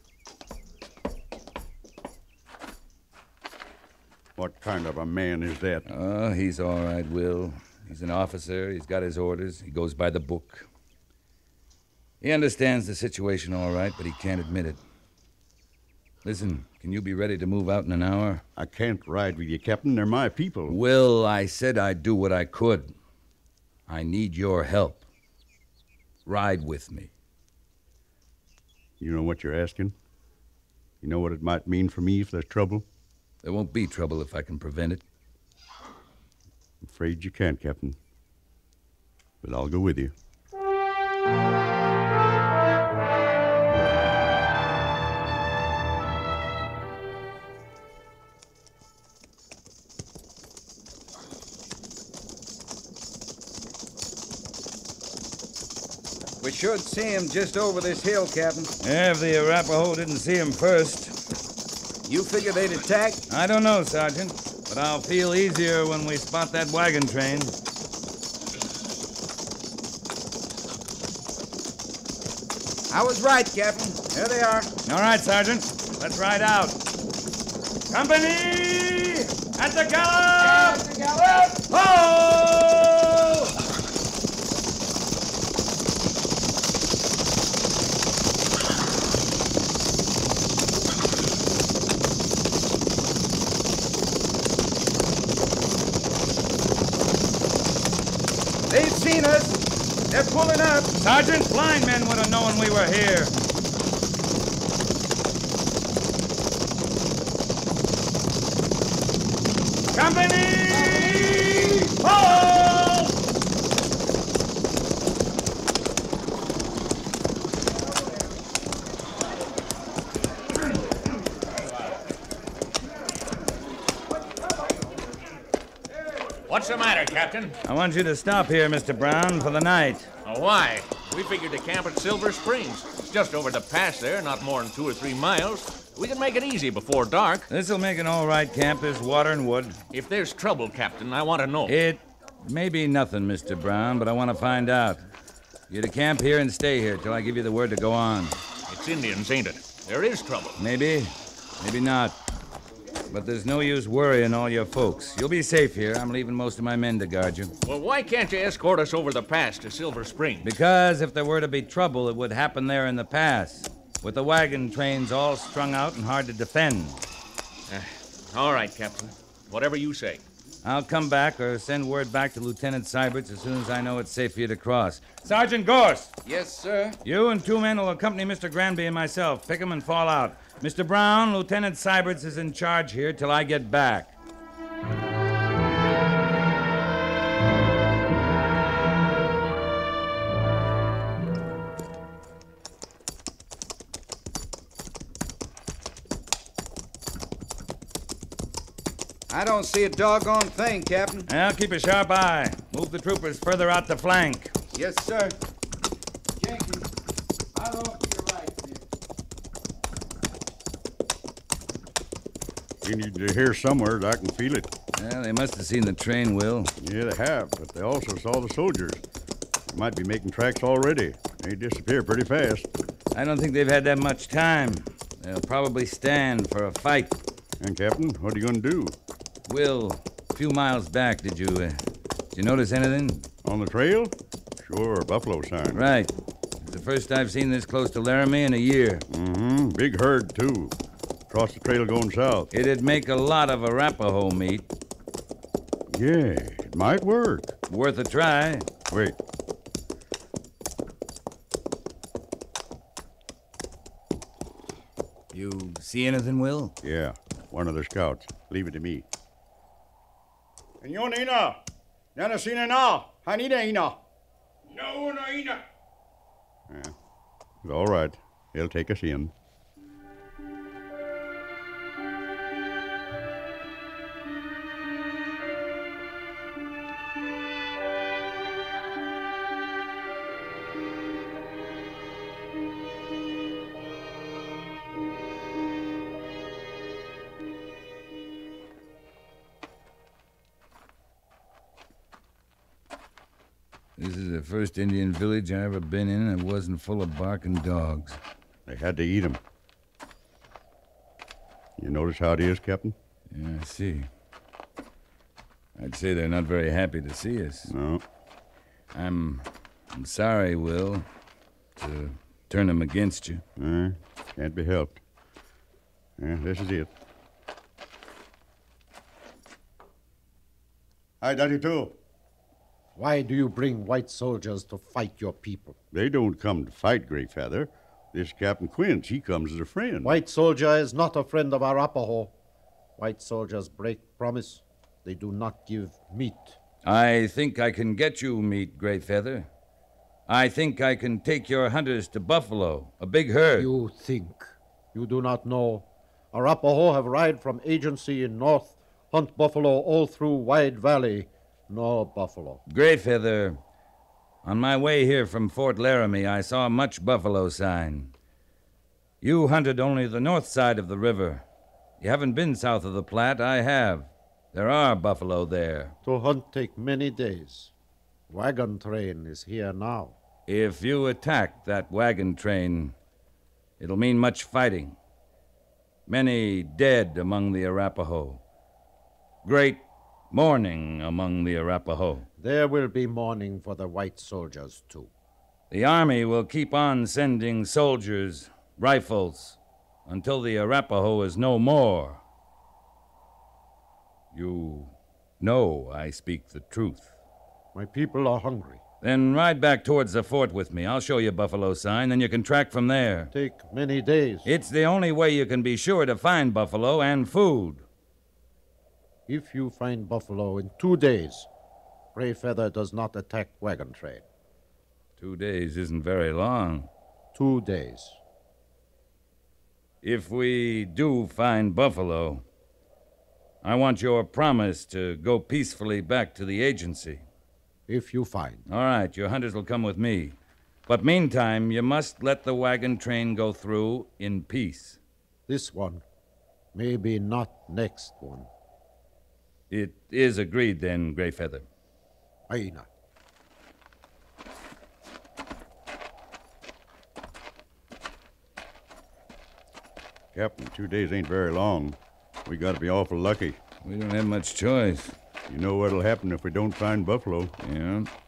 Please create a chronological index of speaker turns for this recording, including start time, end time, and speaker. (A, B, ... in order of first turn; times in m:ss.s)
0:04.4-0:05.8 A
0:05.9-0:10.7 B
0:12.2-0:14.8 B
0:16.2-0:18.4 B
0:18.6-0:20.8 A
0:20.7-0:22.9 B
0:23.9-0:25.0 B
0:26.2-0:27.1 B
0:29.0-0:29.9 A
0:31.0-0:32.8 A
0:33.4-0:35.0 B
0:36.8-0:38.0 A
0:39.4-0:40.1 A
0:56.4-0:58.7 C
0:58.8-1:01.1 B
1:02.0-1:03.2 C
1:03.3-1:07.5 B
1:12.9-1:14.7 C
1:14.8-1:16.8 B
1:17.9-1:20.8 B
1:20.4-1:21.6 C
1:21.7-1:23.5 B
1:38.7-1:40.9 C
1:41.0-1:43.3 B
1:49.9-1:53.1 B
2:06.5-2:07.6 D
2:07.6-2:10.1 B
2:10.2-2:17.5 D
2:17.5-2:19.8 B
2:19.9-2:21.7 D
2:21.6-2:25.0 B
2:25.7-2:28.4 B
2:28.7-2:30.5 D
2:30.6-2:32.2 B
2:33.1-2:37.5 B
2:37.6-2:40.5 D
2:40.4-2:47.0 B
2:47.7-2:50.2 D
2:50.6-2:56.1 B
2:56.2-2:57.0 C
2:57.0-3:04.1 B
3:19.3-3:21.3 C
3:21.3-3:24.5 B
3:24.7-3:25.4 C
3:26.4-3:26.9 C
3:27.5-3:28.8 C
3:32.8-3:34.7 A
3:34.9-3:36.7 B
3:36.8-3:39.0 A
3:39.7-3:42.7 A
3:43.1-3:47.2 B
3:47.6-3:49.0 A
3:49.5-3:51.8 B
3:52.3-3:53.3 B
3:53.4-3:55.8 A
3:55.7-3:59.0 B
3:59.1-4:00.8 A
4:01.3-4:02.5 A
4:02.5-4:04.6 B
4:05.9-4:07.5 A
4:07.7-4:08.7 B
4:08.9-4:09.2 A
4:15.3-4:16.7 B
4:16.8-4:19.0 A
4:20.8-4:21.6 A
4:22.1-4:24.0 A
4:24.7-4:25.4 A
4:26.7-4:26.9 A
4:27.6-4:29.3 A
4:54.0-4:58.2 B
4:58.6-4:59.4 A
5:01.8-5:03.0 A
5:03.3-5:04.1 B
5:05.8-5:07.7 B
5:07.6-5:08.0 A
5:08.9-5:11.1 B
5:11.8-5:13.4 B
5:13.6-5:15.0 A
5:16.2-5:16.9 A
5:21.2-5:22.0 A
5:23.0-5:25.8 E
5:25.9-5:30.2 A
5:30.0-5:32.3 E
5:33.0-5:36.6 E
5:36.8-5:39.5 B
5:40.3-5:43.7 B
5:43.6-5:52.6 E
5:52.7-5:53.6 B
5:54.4-5:58.1 B
5:59.2-6:01.4 B
6:02.0-6:05.9 B
6:06.0-6:07.7 E
6:08.3-6:10.1 E
6:10.5-6:12.9 B
6:13.8-6:15.0 B
6:16.1-6:18.4 B
6:19.4-6:22.3 B
6:22.4-6:25.1 E
6:25.7-6:32.2 B
6:34.3-6:37.1 B
6:37.7-6:38.8 E
6:39.0-6:43.3 B
6:43.3-6:44.5 E
6:44.4-6:47.8 B
6:49.3-6:51.5 E
6:52.1-6:54.2 E
6:55.2-6:56.9 B
6:57.3-6:58.2 E
7:00.0-7:02.4 B
7:03.6-7:07.2 B
7:07.9-7:08.6 E
7:08.7-7:15.0 B
7:15.5-7:16.0 E
7:16.7-7:18.5 E
7:19.7-7:21.6 B
7:22.5-7:22.9 E
7:30.3-7:33.6 A
7:33.8-7:35.1 B
7:35.5-7:37.6 A
7:37.6-7:38.1 B